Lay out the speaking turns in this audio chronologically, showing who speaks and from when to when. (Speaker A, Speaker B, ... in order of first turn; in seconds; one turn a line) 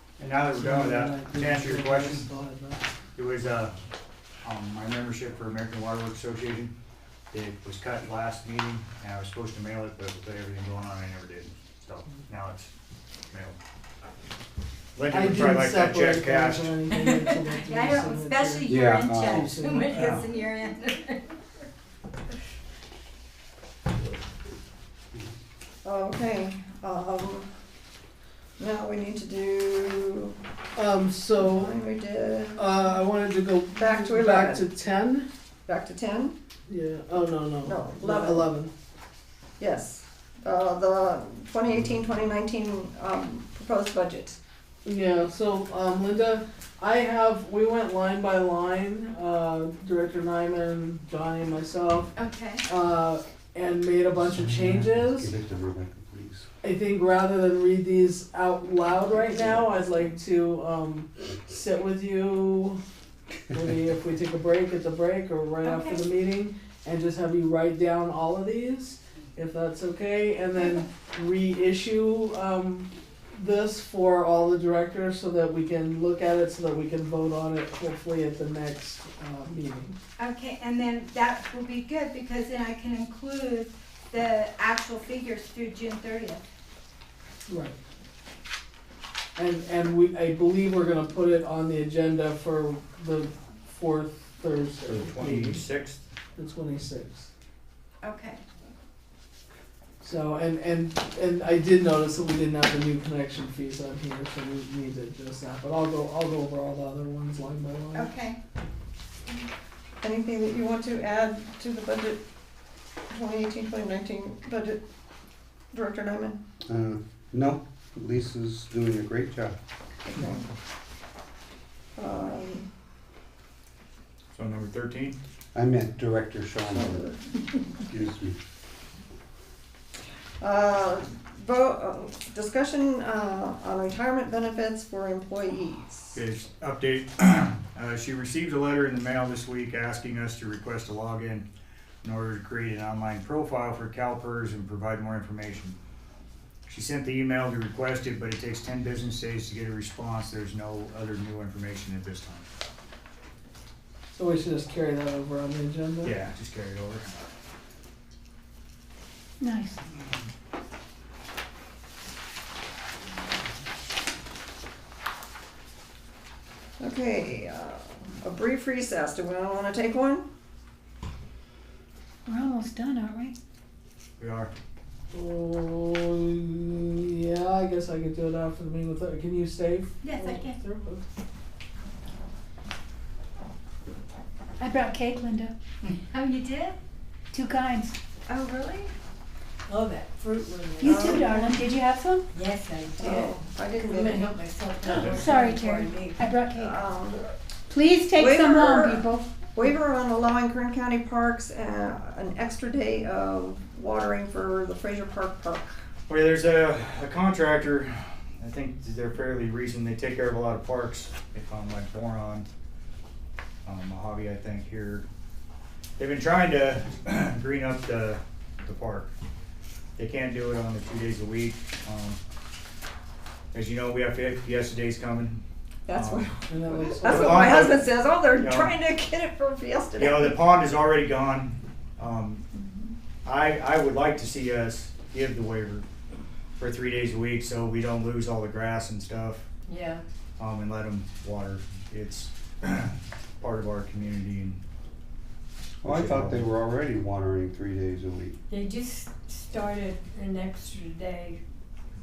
Speaker A: 0.2-2.3
Speaker B: 0.5-2.8
Speaker A: 3.1-3.7
Speaker A: 4.4-6.7
Speaker A: 7.3-12.7
Speaker A: 13.3-13.6
Speaker A: 14.9-16.8
Speaker B: 15.1-20.2
Speaker C: 16.9-21.4
Speaker D: 18.7-19.5
Speaker A: 19.9-20.3
Speaker E: 25.8-27.5
Speaker E: 28.6-30.4
Speaker B: 30.7-31.8
Speaker E: 31.4-32.6
Speaker B: 32.5-35.3
Speaker E: 33.8-34.6
Speaker E: 35.7-36.4
Speaker B: 36.7-38.7
Speaker E: 37.6-38.5
Speaker E: 39.6-44.4
Speaker B: 44.8-52.1
Speaker C: 52.1-52.7
Speaker B: 52.6-55.3
Speaker D: 54.4-56.5
Speaker B: 56.6-62.8
Speaker C: 59.3-59.6
Speaker B: 63.5-79.9
Speaker C: 65.6-66.1
Speaker C: 80.2-86.4
Speaker B: 87.5-87.8
Speaker B: 89.3-95.6
Speaker A: 94.8-96.0
Speaker B: 96.3-97.3
Speaker C: 98.0-98.4
Speaker B: 100.0-108.1
Speaker C: 107.9-108.4
Speaker E: 110.0-112.2
Speaker E: 113.1-114.8
Speaker E: 115.7-116.4
Speaker D: 116.7-119.5
Speaker E: 120.0-120.5
Speaker E: 122.0-122.7
Speaker A: 124.3-125.2
Speaker D: 125.5-127.0
Speaker E: 126.7-127.2
Speaker D: 127.9-128.4
Speaker E: 130.4-136.2
Speaker A: 136.1-141.4
Speaker A: 142.0-145.8
Speaker A: 146.7-152.4
Speaker B: 154.1-156.1
Speaker A: 156.0-157.3
Speaker F: 159.4-159.8
Speaker E: 166.8-170.2
Speaker F: 172.2-173.3
Speaker A: 174.2-174.5
Speaker B: 175.1-181.0
Speaker C: 180.0-180.6
Speaker F: 184.6-185.5
Speaker C: 185.8-186.8
Speaker F: 187.3-187.9
Speaker E: 188.3-188.9
Speaker G: 189.7-191.2
Speaker F: 190.8-192.2
Speaker E: 190.8-191.7
Speaker G: 192.3-196.3
Speaker E: 193.0-194.4
Speaker F: 194.8-196.8
Speaker A: 194.9-195.2
Speaker E: 196.5-197.3
Speaker F: 197.7-199.3
Speaker E: 198.1-205.8
Speaker A: 206.1-212.4
Speaker A: 213.6-215.1
Speaker A: 216.0-219.1
Speaker A: 220.0-222.2
Speaker A: 223.5-225.4
Speaker E: 225.8-230.4
Speaker A: 225.9-226.3
Speaker B: 226.5-227.7
Speaker A: 227.0-228.8
Speaker A: 230.0-232.4
Speaker A: 233.2-235.8
Speaker A: 236.6-239.4
Speaker G: 239.7-240.0
Speaker A: 240.4-244.6
Speaker A: 245.8-246.5
Speaker D: 245.8-248.4
Speaker G: 248.5-251.4